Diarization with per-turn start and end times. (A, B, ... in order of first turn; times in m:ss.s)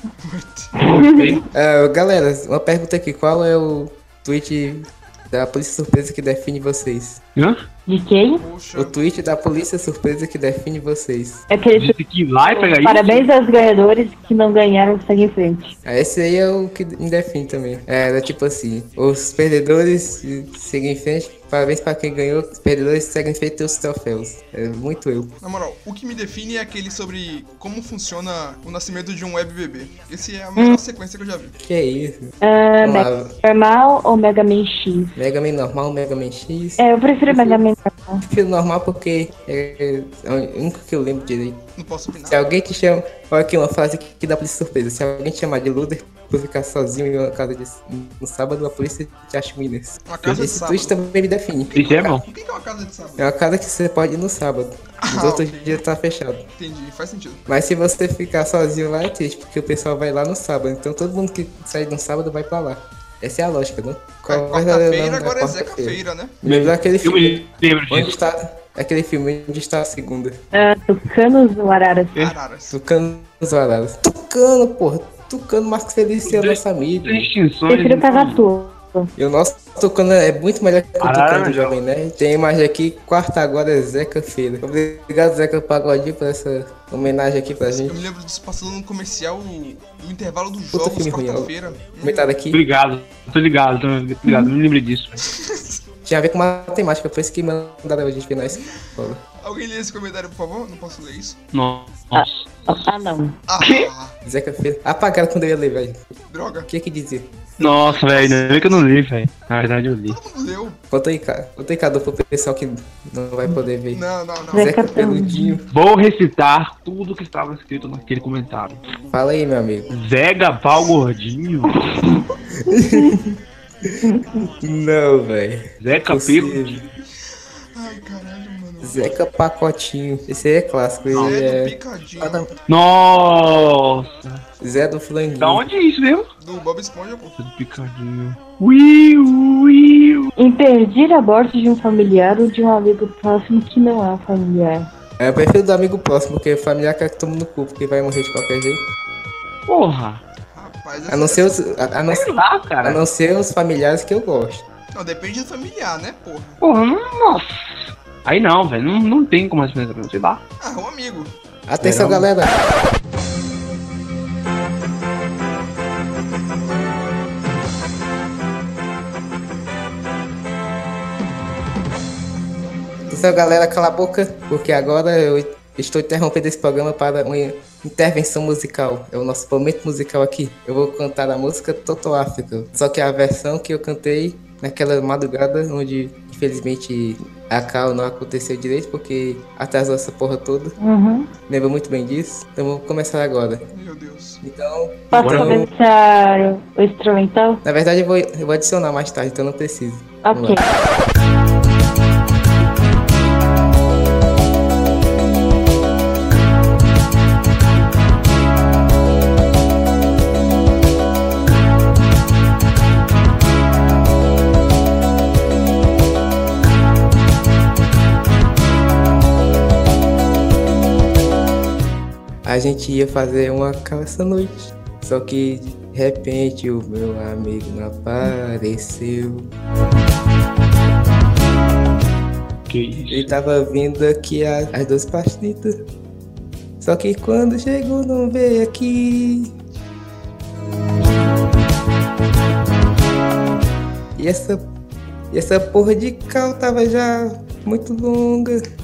0:00.2-0:00.7 A
0:00.8-0:01.3 B
0:00.9-0:01.4 C
0:01.5-0:07.2 D
0:07.4-0:07.6 C
0:07.9-0:08.4 B
0:08.4-0:09.0 A
0:08.7-0:11.4 D
0:11.5-0:15.8 B
0:11.8-0:13.3 C
0:15.8-0:25.3 D
0:25.4-0:31.6 A
0:31.6-0:33.3 D
0:32.4-0:35.2 B
0:35.2-0:37.6 D
0:36.8-0:38.2 B
0:38.2-0:41.6 D
0:41.8-0:42.4 A
0:42.3-0:52.0 D
0:50.0-0:50.9 A
0:51.7-0:53.3 A
0:51.7-0:52.2 C
0:53.2-0:56.4 D
0:55.0-0:55.8 A
0:56.6-0:57.4 A
0:57.5-1:10.4 D
1:04.2-1:06.4 A
1:06.4-1:08.1 C
1:10.5-1:12.1 B
1:12.2-1:12.8 A
1:12.7-1:17.3 D
1:16.2-1:18.4 C
1:17.7-1:19.1 B
1:19.2-1:28.0 D
1:21.0-1:21.8 C
1:27.8-1:32.3 A
1:30.7-1:32.6 D
1:32.5-1:35.2 C
1:34.2-1:34.5 B
1:35.2-1:35.8 A
1:36.0-1:39.2 D
1:39.4-1:41.4 A
1:41.5-1:42.4 C
1:42.2-1:43.4 B
1:43.5-1:44.2 A
1:43.6-1:43.9 C
1:44.2-1:46.1 D
1:46.3-1:46.7 A
1:46.7-1:47.3 D
1:47.6-1:50.2 C
1:47.8-1:48.9 A
1:50.1-1:50.8 A
1:50.9-1:55.6 D
1:53.9-1:54.8 A
1:54.5-1:55.6 B
1:55.7-1:58.8 C
1:59.1-1:59.9 D
1:59.9-2:01.8 C
2:02.7-2:03.4 D
2:02.7-2:03.1 B
2:04.3-2:06.9 D
2:05.8-2:06.8 C
2:07.3-2:09.2 A
2:08.8-2:12.5 D
2:11.1-2:11.4 C
2:11.1-2:12.5 A
2:12.7-2:14.4 C
2:14.6-2:15.6 D
2:15.4-2:16.2 C
2:16.4-2:17.3 A
2:17.4-2:20.3 C
2:20.4-2:24.9 B
2:25.2-2:28.8 D
2:29.7-2:30.2 C
2:30.5-2:31.7 A
2:31.1-2:34.6 D
2:32.1-2:33.0 C
2:34.9-2:36.6 A
2:36.6-2:40.4 C
2:40.6-2:41.3 A
2:41.7-2:42.7 D
2:41.8-2:42.3 C
2:52.6-2:53.4 A
2:53.1-3:10.8 D
3:10.8-3:11.3 B
3:11.5-3:13.6 D
3:13.7-3:14.4 A
3:14.4-3:15.7 D
3:15.1-3:17.6 B
3:15.2-3:15.6 C
3:17.6-3:20.7 D
3:20.2-3:20.6 B
3:42.4-3:49.5 D
3:52.7-3:53.3 C
3:53.1-3:55.8 D
3:56.8-3:59.5 D
4:04.1-4:04.6 D
4:05.3-4:08.6 D